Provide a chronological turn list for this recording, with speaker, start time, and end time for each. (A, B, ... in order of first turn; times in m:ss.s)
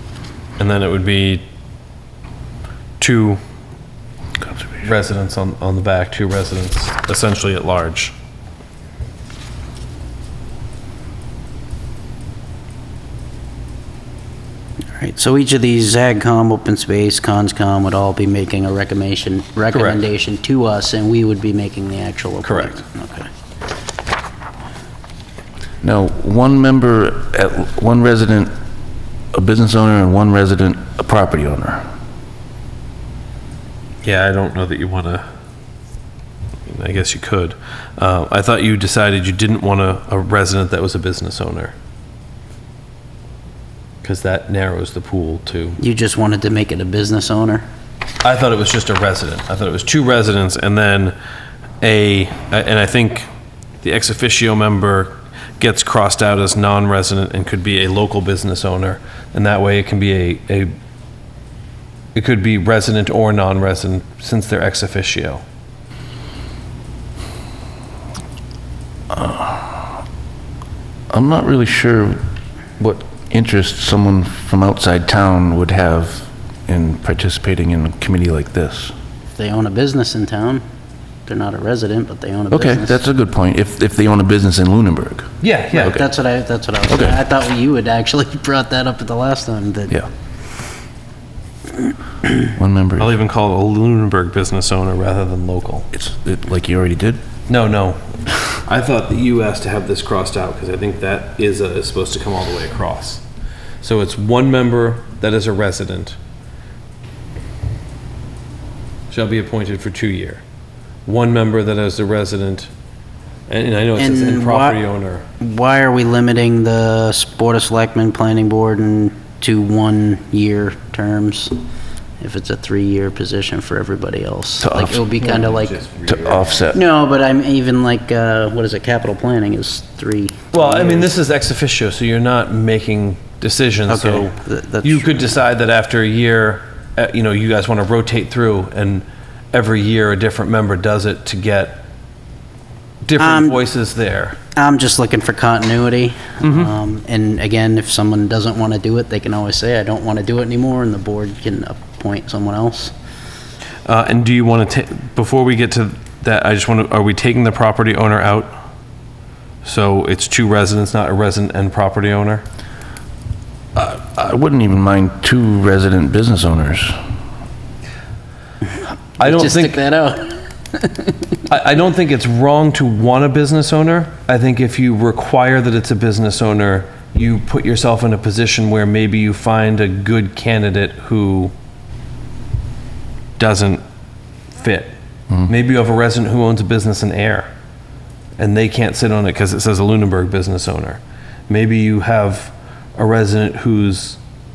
0:00.6-0:01.4 A
0:03.0-0:03.4 A
0:04.8-0:08.1 A
0:15.0-0:23.3 B
0:22.4-0:22.8 A
0:25.8-0:28.5 C
0:29.3-0:31.9 C
0:34.0-0:35.2 A
0:36.7-0:41.7 A
0:44.0-0:45.8 A
0:45.8-0:47.6 B
0:48.2-0:51.2 A
0:51.8-0:53.3 A
0:53.8-1:00.7 A
1:02.1-1:05.4 A
1:09.1-1:09.9 C
1:11.1-1:12.2 C
1:12.8-1:18.9 C
1:19.3-1:20.6 B
1:21.2-1:23.0 B
1:22.5-1:26.0 C
1:25.4-1:26.0 A
1:25.8-1:30.0 B
1:26.9-1:27.2 C
1:32.6-1:33.1 C
1:33.0-1:35.9 A
1:35.9-1:37.2 C
1:37.5-1:38.0 A
1:38.6-1:43.2 A
1:43.8-1:46.2 A
1:49.1-1:50.4 A
1:51.0-1:52.7 A
1:53.5-1:55.2 A
1:54.0-1:54.8 B
1:55.4-2:01.5 B
2:02.2-2:05.8 B
2:04.6-2:05.0 C
2:05.6-2:06.1 A
2:06.0-2:06.8 C
2:06.7-2:11.1 B
2:10.5-2:21.8 A
2:13.9-2:15.2 B
2:23.0-2:24.4 A
2:23.2-2:23.6 B
2:24.5-2:32.9 B
2:26.4-2:26.7 A
2:33.8-2:38.6 A
2:39.6-2:42.4 A
2:43.7-2:47.0 C
2:49.2-2:49.8 A
2:49.2-2:51.4 B
2:51.5-3:01.5 A
3:03.4-3:03.8 A
3:04.6-3:04.9 A
3:05.5-3:07.5 A
3:08.4-3:14.2 A